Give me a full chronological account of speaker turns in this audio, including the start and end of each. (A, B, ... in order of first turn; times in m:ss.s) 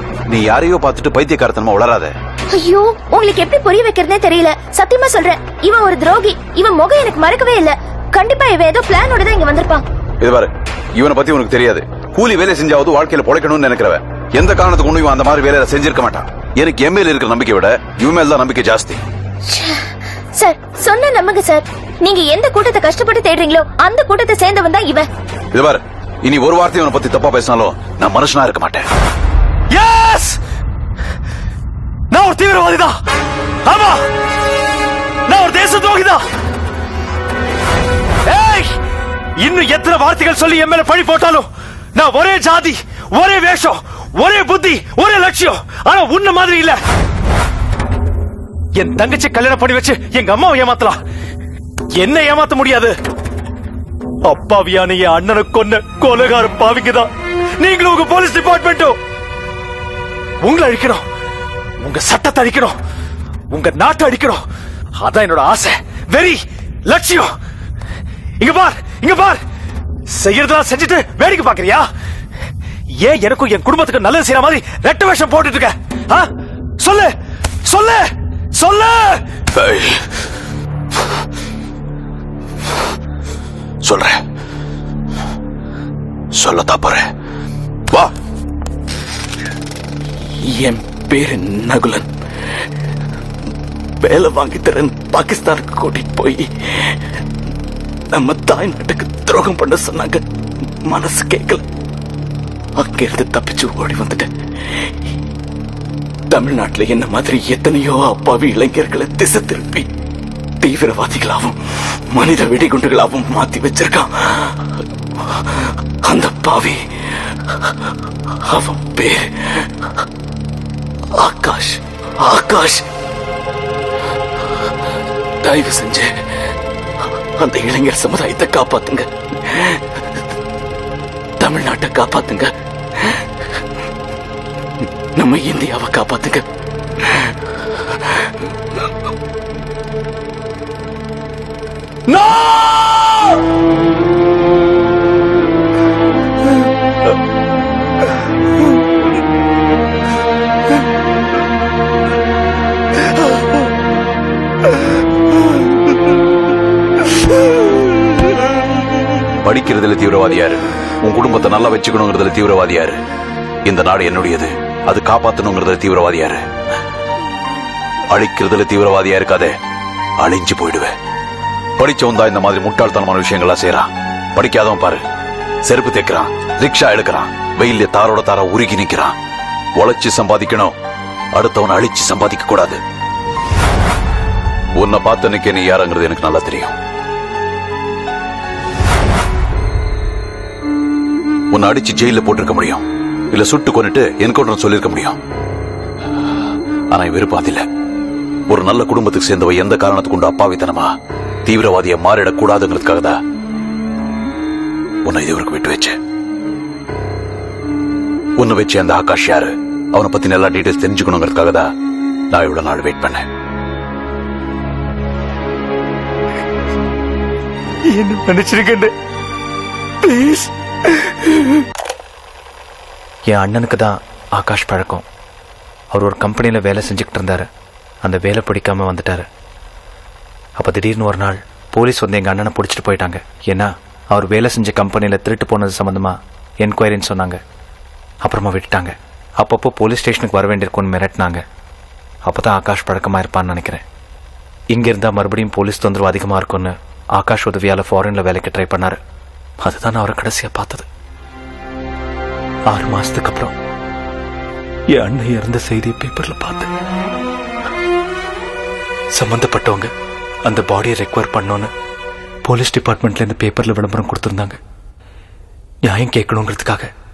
0:00.3-0:02.1 A
0:02.5-0:09.8 B
0:10.2-0:19.0 A
0:20.4-0:25.0 B
0:25.5-0:28.9 A
0:29.7-0:30.4 C
0:32.1-0:32.9 C
0:33.6-0:34.0 C
0:35.3-0:36.2 C
0:38.3-0:38.7 C
0:39.4-0:41.4 C
0:42.0-0:46.8 C
0:48.8-0:51.0 C
0:52.0-0:52.9 C
0:54.3-0:57.0 C
0:57.6-0:58.9 C
1:00.4-1:01.0 C
1:01.8-1:02.7 C
1:03.5-1:04.4 C
1:05.0-1:06.4 C
1:06.9-1:07.3 C
1:08.4-1:09.4 C
1:10.1-1:11.8 C
1:13.0-1:16.3 C
1:16.8-1:17.1 C
1:17.6-1:19.2 C
1:19.5-1:20.0 A
1:23.8-1:24.2 A
1:26.4-1:27.1 A
1:30.4-1:32.1 D
1:34.0-1:36.7 D
1:38.1-1:40.2 D
1:40.8-1:41.6 D
1:42.8-1:44.3 D
1:46.3-1:49.8 D
1:50.6-1:54.6 D
1:56.0-1:56.8 D
1:58.5-1:59.6 D
2:01.2-2:02.8 D
2:05.4-2:06.1 D
2:07.4-2:09.8 D
2:11.4-2:12.5 D
2:15.2-2:16.4 D
2:39.4-2:43.0 A
2:43.6-2:46.4 A
2:48.1-2:49.5 A
2:50.2-2:50.9 A
2:51.8-2:55.0 A
2:55.6-2:59.1 A
2:59.8-3:00.7 A
3:01.3-3:02.8 A
3:04.8-3:06.7 A
3:11.5-3:15.2 A
3:16.9-3:17.6 A
3:18.5-3:20.9 A
3:21.4-3:23.2 A
3:25.0-3:26.0 A
3:28.4-3:31.7 A
3:32.3-3:33.2 A
3:37.9-3:38.9 E
3:40.1-3:40.4 E
3:43.3-3:45.0 E
3:45.9-3:47.5 E
3:48.0-3:49.3 E
3:50.6-3:57.4 E
3:58.2-4:01.4 E
4:02.3-4:03.8 E
4:04.7-4:09.0 E
4:09.6-4:10.9 E
4:12.7-4:13.5 E
4:14.9-4:16.7 E
4:19.1-4:19.9 E
4:20.4-4:21.7 E
4:22.4-4:24.6 E
4:25.9-4:26.9 E